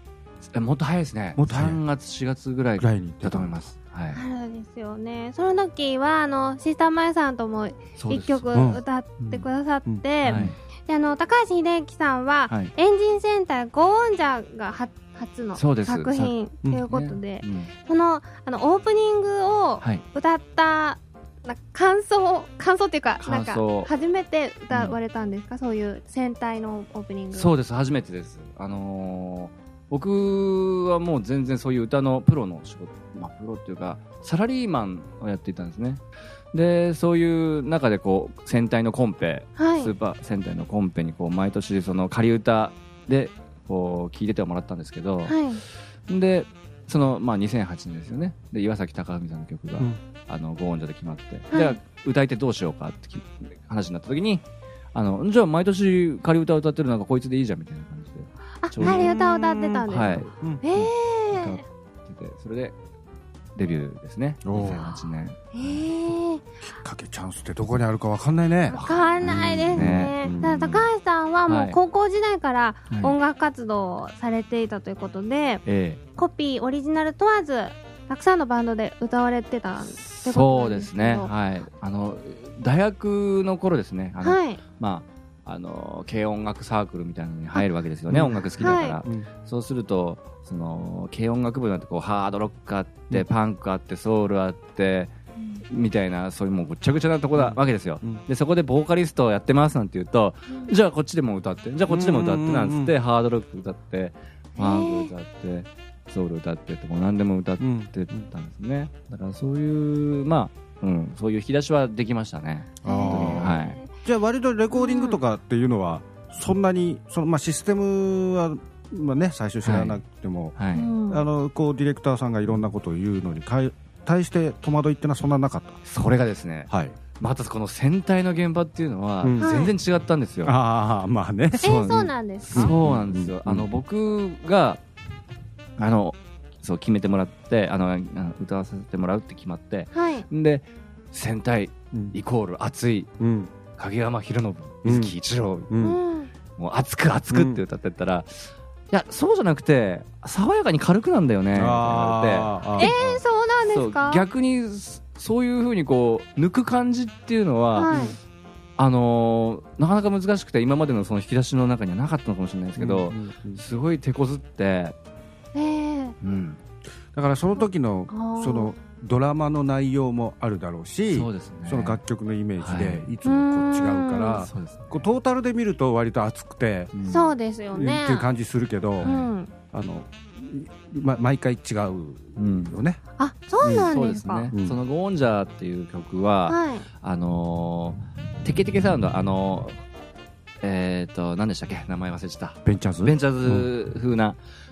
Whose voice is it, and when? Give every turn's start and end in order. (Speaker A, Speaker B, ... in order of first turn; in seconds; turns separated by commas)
Speaker A: 0.5-4.2, Speaker B: 1.4-1.8, Speaker B: 2.8-3.5, Speaker C: 4.1-27.5, Speaker A: 8.0-8.5, Speaker B: 8.5-8.8, Speaker A: 9.2-9.4, Speaker B: 9.8-10.5, Speaker A: 10.2-10.6, Speaker A: 15.6-16.3, Speaker A: 16.9-17.7, Speaker A: 23.2-23.9, Speaker A: 24.7-25.0, Speaker A: 27.3-45.4, Speaker C: 39.6-39.9, Speaker C: 45.2-45.6, Speaker A: 46.1-59.1, Speaker C: 51.5-51.8, Speaker C: 58.6-61.6, Speaker B: 58.8-60.6, Speaker A: 59.9-62.7, Speaker A: 63.5-65.7, Speaker B: 64.4-64.9, Speaker C: 65.5-66.4, Speaker B: 66.7-70.8, Speaker C: 68.7-75.6, Speaker A: 68.7-70.8, Speaker A: 71.5-71.8, Speaker A: 72.9-73.2, Speaker A: 75.7-76.0, Speaker C: 76.2-81.3, Speaker A: 80.0-95.1, Speaker C: 84.2-84.6, Speaker B: 88.1-89.3, Speaker C: 88.6-89.0, Speaker A: 95.7-113.8, Speaker B: 97.3-98.2, Speaker C: 100.5-100.7, Speaker B: 101.9-102.9, Speaker C: 104.6-105.1, Speaker B: 107.6-108.2, Speaker B: 112.8-120.5, Speaker C: 112.8-113.9, Speaker C: 114.7-115.2, Speaker A: 119.6-120.0, Speaker A: 120.5-120.9, Speaker C: 120.7-121.2, Speaker B: 121.1-125.8, Speaker A: 125.9-130.5, Speaker B: 126.7-127.0, Speaker B: 129.2-129.5, Speaker C: 129.4-129.7, Speaker B: 130.4-131.7, Speaker A: 131.6-134.8, Speaker C: 131.6-132.7, Speaker B: 132.5-133.7, Speaker A: 135.8-143.1, Speaker C: 139.9-140.2, Speaker B: 143.2-143.5, Speaker A: 143.7-145.7, Speaker B: 144.8-145.1, Speaker B: 145.7-146.0, Speaker C: 145.8-146.3, Speaker A: 146.6-158.0, Speaker B: 147.3-147.6, Speaker B: 151.5-152.9, Speaker C: 152.8-154.2, Speaker C: 157.7-158.2, Speaker B: 157.9-158.1, Speaker A: 158.8-164.9, Speaker B: 162.8-163.6, Speaker C: 165.5-166.2, Speaker A: 166.2-166.6, Speaker B: 167.1-176.9, Speaker C: 168.1-168.7, Speaker A: 171.1-172.0, Speaker A: 172.6-173.1, Speaker C: 173.2-174.4, Speaker A: 174.4-175.1, Speaker A: 176.9-177.3, Speaker C: 177.0-178.3, Speaker B: 177.7-179.1, Speaker A: 179.0-179.3, Speaker C: 179.0-179.5, Speaker B: 179.7-183.0, Speaker A: 182.4-182.8, Speaker C: 183.2-184.5, Speaker A: 183.7-189.8, Speaker B: 184.5-184.8, Speaker C: 186.5-186.8, Speaker A: 190.6-194.4, Speaker B: 192.7-193.7